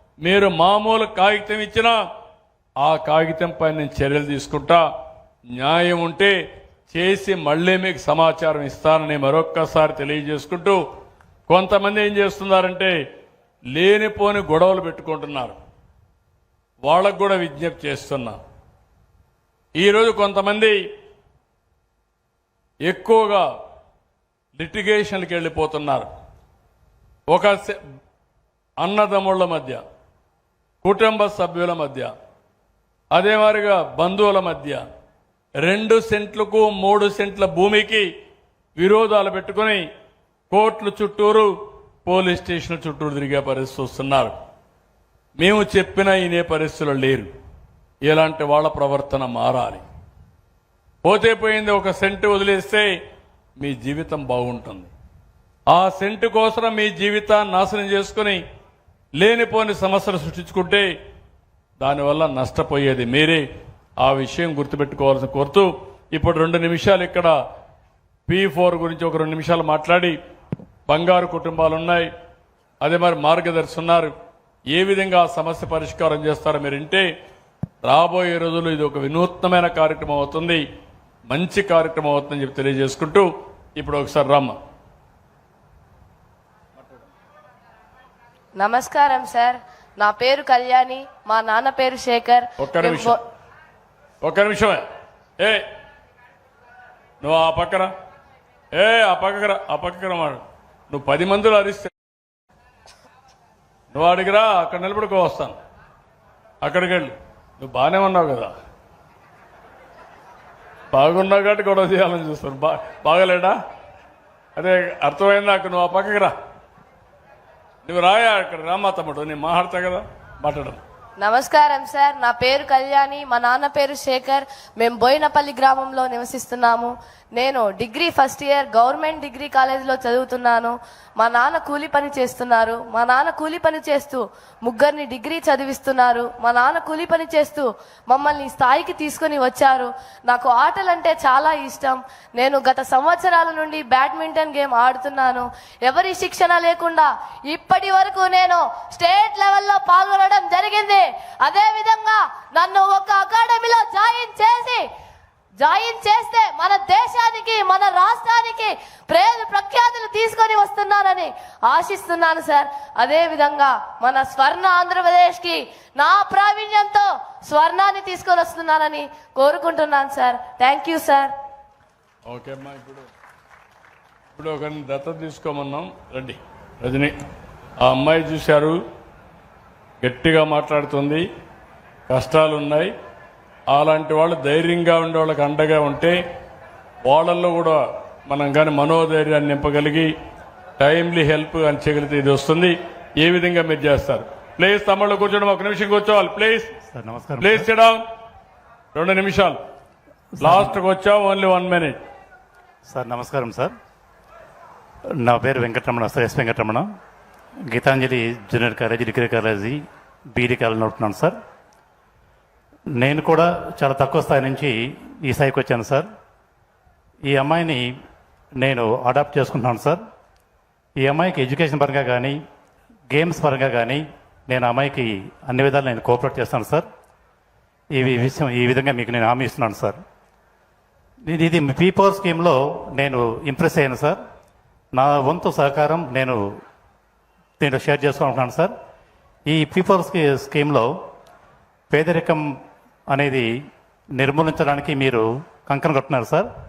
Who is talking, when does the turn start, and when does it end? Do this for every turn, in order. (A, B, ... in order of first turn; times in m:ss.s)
0:00.2-0:02.0 A
0:02.8-0:04.8 A
0:05.6-0:06.3 A
0:06.9-0:10.8 A
0:11.5-0:13.0 A
0:13.7-0:15.6 A
0:16.8-0:18.4 A
0:19.8-0:20.8 A
0:22.9-0:23.4 A
0:24.6-0:26.1 A
0:27.3-0:27.8 A
0:28.8-0:29.8 A
0:30.8-0:32.1 A
0:33.1-0:34.8 A
0:35.6-0:38.1 A
0:38.8-0:39.8 A
0:40.5-0:41.5 A
0:42.0-0:44.3 A
0:45.4-0:47.3 A
0:48.0-0:49.8 A
0:51.0-0:52.9 A
0:53.6-0:54.9 A
0:55.7-0:58.4 A
0:59.2-1:00.9 A
1:01.8-1:03.4 A
1:04.0-1:07.3 A
1:08.3-1:10.2 A
1:10.9-1:12.1 A
1:12.8-1:14.1 A
1:14.7-1:17.1 A
1:17.8-1:20.6 A
1:21.3-1:24.6 A
1:28.6-1:33.2 B
1:32.6-1:33.2 A
1:34.2-1:34.8 A
1:37.2-1:37.9 A
1:38.8-1:41.9 A
1:43.9-1:45.6 A
1:46.6-1:48.5 A
1:50.9-1:53.6 A
1:54.6-1:56.3 A
1:57.8-2:00.8 A
2:01.2-2:34.8 B
2:35.6-2:51.3 B
2:52.3-2:53.1 A
2:54.4-2:57.1 A
2:57.8-2:58.8 A
3:00.0-3:01.2 A
3:02.1-3:02.9 A
3:03.7-3:06.2 A
3:07.0-3:10.1 A
3:10.8-3:16.7 A
3:16.9-3:17.7 C
3:17.4-3:18.0 A
3:18.9-3:19.6 A
3:20.4-3:20.7 C
3:20.4-3:22.0 A
3:22.9-3:23.7 C
3:25.2-3:26.9 C
3:27.7-3:31.4 C
3:33.0-3:36.1 C
3:37.3-3:37.9 C
3:38.6-3:40.0 C
3:41.0-3:42.4 C
3:43.1-3:46.9 C
3:48.0-3:50.0 C
3:51.3-3:54.2 C
3:55.0-3:56.5 C
3:57.6-3:58.7 C
3:59.5-4:01.0 C
4:01.9-4:02.5 C
4:03.1-4:03.5 C
4:04.2-4:06.5 C